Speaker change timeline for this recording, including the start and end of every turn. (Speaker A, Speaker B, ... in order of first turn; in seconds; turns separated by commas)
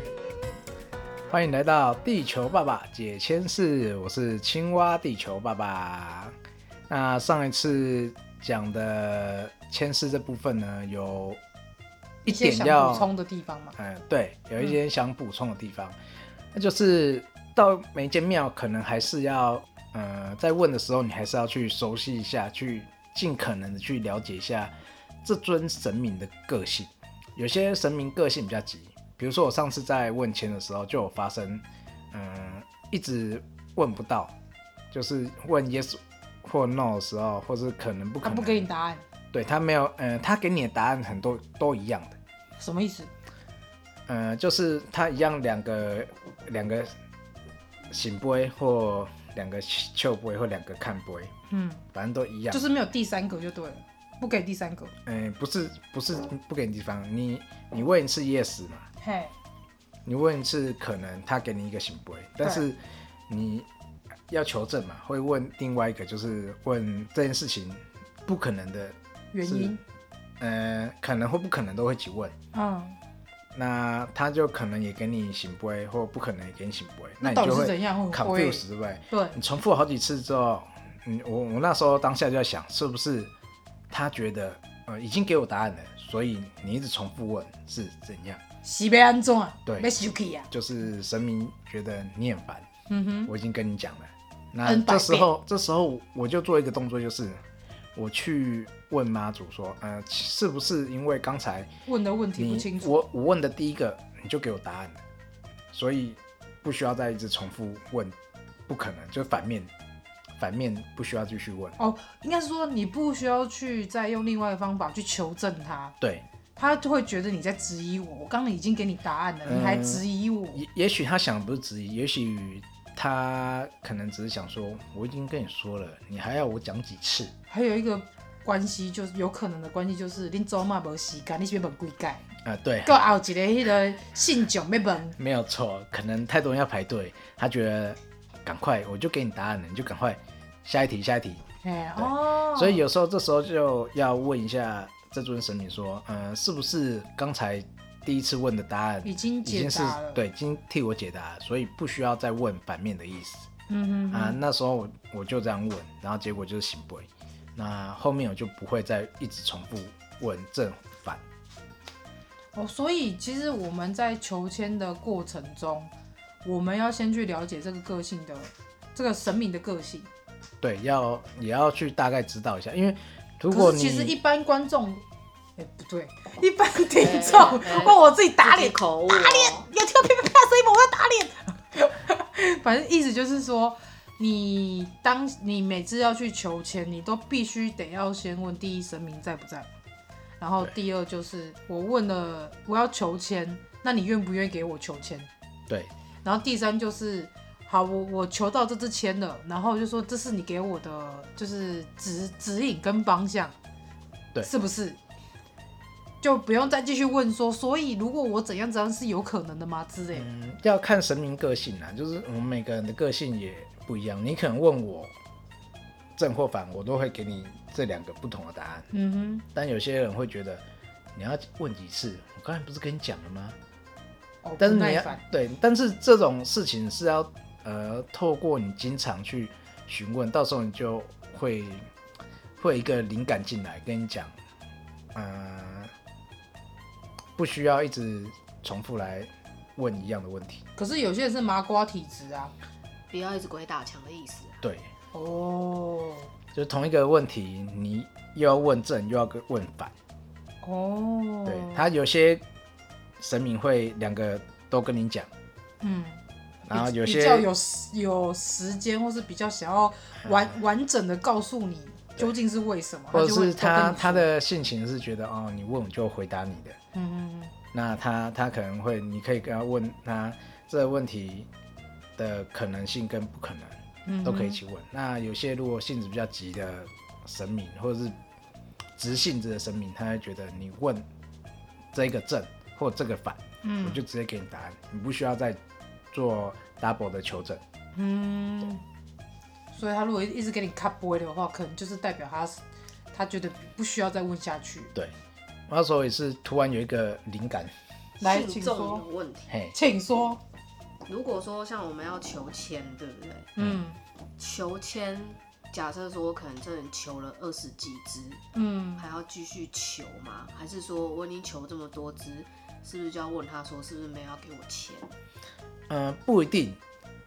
Speaker A: 1.3-6.4, Speaker A: 6.9-11.4, Speaker A: 12.2-13.1, Speaker B: 12.3-13.8, Speaker A: 13.8-16.0, Speaker A: 16.5-34.3, Speaker A: 34.9-38.7, Speaker B: 38.2-39.0, Speaker A: 39.3-42.2, Speaker B: 42.6-43.1, Speaker A: 44.1-46.9, Speaker A: 47.9-51.3, Speaker B: 51.5-51.9, Speaker A: 51.9-52.7, Speaker B: 52.5-54.9, Speaker A: 55.1-58.9, Speaker B: 59.0-59.3, Speaker A: 60.1-63.7, Speaker A: 64.3-69.8, Speaker B: 69.3-69.8, Speaker A: 70.4-72.3, Speaker B: 72.5-73.0, Speaker A: 73.5-83.3, Speaker B: 77.2-79.4, Speaker A: 83.9-88.4, Speaker B: 88.6-90.5, Speaker A: 89.7-89.9, Speaker A: 90.5-92.7, Speaker B: 92.9-93.3, Speaker A: 93.3-97.4, Speaker B: 94.6-95.3, Speaker A: 98.0-101.7, Speaker B: 101.9-103.0, Speaker A: 102.4-105.0, Speaker A: 105.7-108.2, Speaker A: 108.7-109.7, Speaker A: 110.4-111.8, Speaker B: 111.8-116.0, Speaker B: 116.6-120.6, Speaker A: 119.4-127.3, Speaker B: 127.5-132.2, Speaker A: 132.4-133.0, Speaker B: 132.8-135.2, Speaker A: 135.2-141.4, Speaker B: 141.6-142.8, Speaker A: 142.0-153.5, Speaker B: 149.0-150.2, Speaker B: 153.7-154.4, Speaker A: 154.1-161.2, Speaker B: 162.6-165.9, Speaker B: 166.4-170.1, Speaker A: 170.6-174.2, Speaker B: 173.5-175.0, Speaker B: 175.6-189.7, Speaker C: 177.0-179.7, Speaker B: 190.4-195.3, Speaker B: 196.2-203.5, Speaker B: 204.4-205.0, Speaker B: 206.2-210.3, Speaker A: 210.1-215.1, Speaker A: 216.2-218.9, Speaker B: 218.9-219.4, Speaker A: 219.5-220.6, Speaker A: 221.2-223.6, Speaker B: 224.4-225.2, Speaker A: 224.6-231.8, Speaker A: 232.6-234.3, Speaker A: 235.1-235.9, Speaker A: 237.4-240.6, Speaker B: 240.8-242.5, Speaker C: 243.1-244.6, Speaker A: 244.6-244.9, Speaker B: 245.1-246.3, Speaker A: 246.5-249.9, Speaker B: 250.6-251.8, Speaker A: 251.5-252.4, Speaker A: 253.2-255.3, Speaker B: 255.8-264.3, Speaker A: 256.7-257.5, Speaker A: 260.2-260.5, Speaker A: 263.1-266.8, Speaker B: 266.9-267.5, Speaker A: 267.7-271.5, Speaker A: 272.2-278.2, Speaker B: 274.1-274.6, Speaker A: 279.0-281.1, Speaker A: 281.9-285.6, Speaker B: 283.6-284.0, Speaker A: 286.1-287.6, Speaker B: 287.9-288.8, Speaker B: 289.7-292.6, Speaker B: 293.1-294.9, Speaker A: 295.7-297.7, Speaker B: 298.2-299.0, Speaker C: 298.2-299.5, Speaker A: 299.5-299.8, Speaker B: 299.7-300.4, Speaker C: 301.1-303.5, Speaker B: 303.6-304.0, Speaker C: 304.4-308.4, Speaker B: 308.5-309.1, Speaker C: 309.0-315.1, Speaker A: 315.9-316.8